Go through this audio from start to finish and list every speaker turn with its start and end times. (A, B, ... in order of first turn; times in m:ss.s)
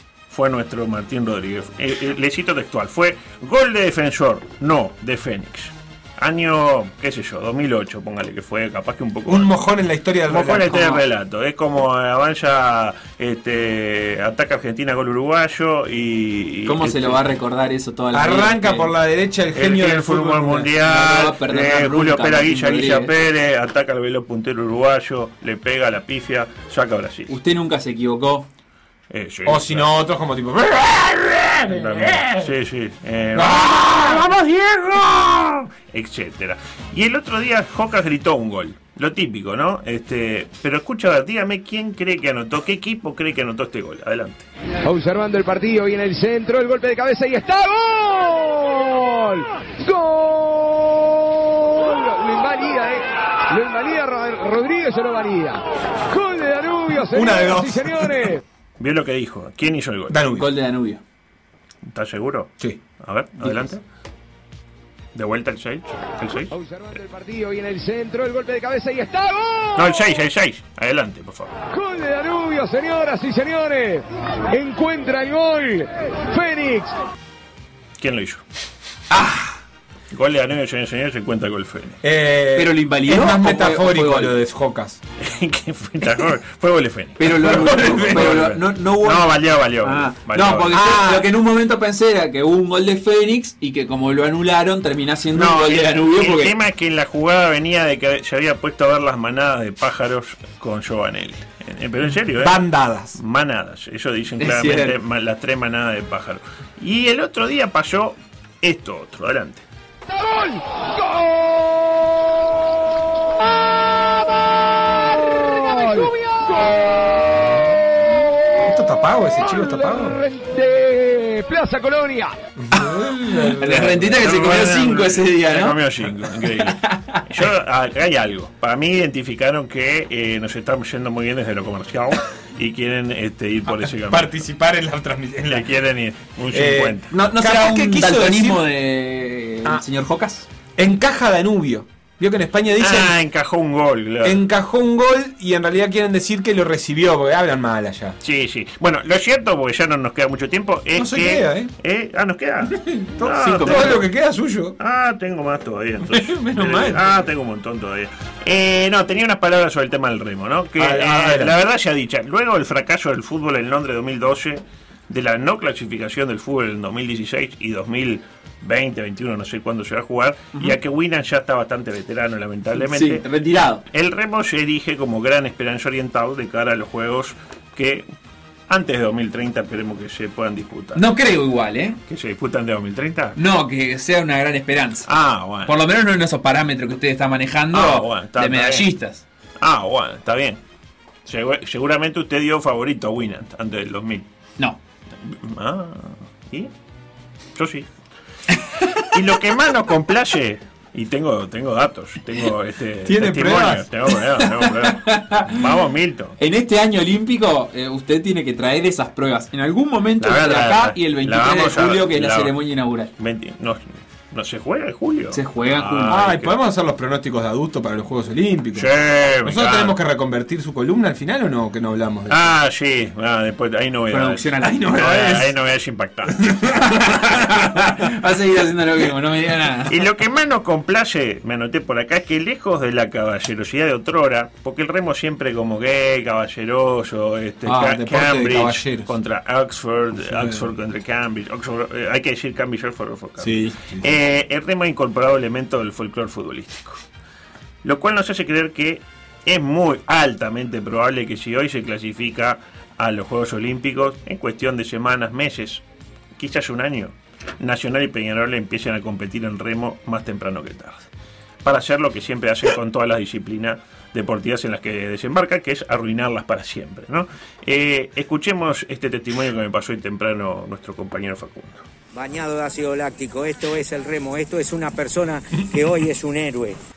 0:00.3-0:09.6 A
0:09.3-0:11.0 B
0:10.3-0:17.2 A
0:16.7-0:18.9 C
0:18.1-0:20.6 B
0:19.5-0:27.3 A
0:20.6-0:23.2 C
0:27.3-0:28.5 C
0:29.1-0:30.0 A
0:29.5-0:32.6 B
0:31.7-0:44.5 A
0:33.3-0:34.4 B
0:44.8-0:58.3 D
0:57.1-0:58.3 B
0:58.8-1:00.2 A
1:00.1-1:00.5 B
1:00.3-1:01.0 C
1:01.8-1:03.8 A
1:03.4-1:03.8 C
1:05.2-1:06.6 A
1:06.6-1:09.7 D
1:09.8-1:11.5 A
1:11.7-1:17.0 D
1:18.0-1:18.4 A
1:19.1-1:19.6 C
1:20.1-1:22.0 A
1:22.0-1:25.0 B
1:22.6-1:24.3 C
1:25.2-1:30.8 A
1:27.2-1:36.6 C
1:27.6-1:28.3 B
1:30.7-1:31.3 B
1:35.3-1:42.6 A
1:42.4-1:43.2 B
1:43.2-1:49.6 A
1:44.4-1:45.0 C
1:58.6-2:00.2 B
2:00.3-2:02.4 D
2:02.6-2:04.2 B
2:02.7-2:07.2 C
2:04.2-2:14.3 A
2:14.1-2:15.7 B
2:15.5-2:17.1 A
2:16.5-2:18.6 B
2:17.1-2:20.5 C
2:20.8-2:23.2 B
2:22.8-2:24.4 A
2:24.2-2:28.2 B
2:28.2-2:34.1 A
2:31.0-2:31.7 B
2:32.7-2:34.8 B
2:33.4-2:34.0 C
2:34.8-2:53.3 A
2:36.1-2:37.1 B
2:40.8-2:41.6 B
2:52.8-2:53.8 C
2:53.9-2:58.1 A
2:58.7-3:01.1 A
3:01.0-3:02.0 C
3:02.1-3:03.4 A
3:03.4-3:05.1 C
3:05.1-3:05.8 A
3:05.6-3:09.2 C
3:07.7-3:08.9 A
3:09.6-3:10.6 A
3:11.3-3:14.3 A
3:15.3-3:16.7 A
3:17.6-3:17.9 A
3:19.1-3:26.4 A
3:23.1-3:23.9 B
3:24.4-3:25.5 C
3:26.4-3:33.1 C
3:30.2-3:32.6 A
3:33.2-3:36.5 A
3:35.3-3:36.3 C
3:36.1-3:38.9 B
3:38.8-3:40.0 A
3:39.4-3:42.5 B
3:42.3-3:46.7 A
3:44.1-3:45.5 C
3:46.8-3:50.0 C
3:49.9-4:07.0 A
3:57.7-3:57.9 C
3:57.9-3:59.1 B
4:00.2-4:00.6 B
4:03.4-4:04.1 B
4:07.8-4:15.8 A
4:16.4-4:21.1 A
4:21.6-4:31.9 A
4:32.1-4:36.8 E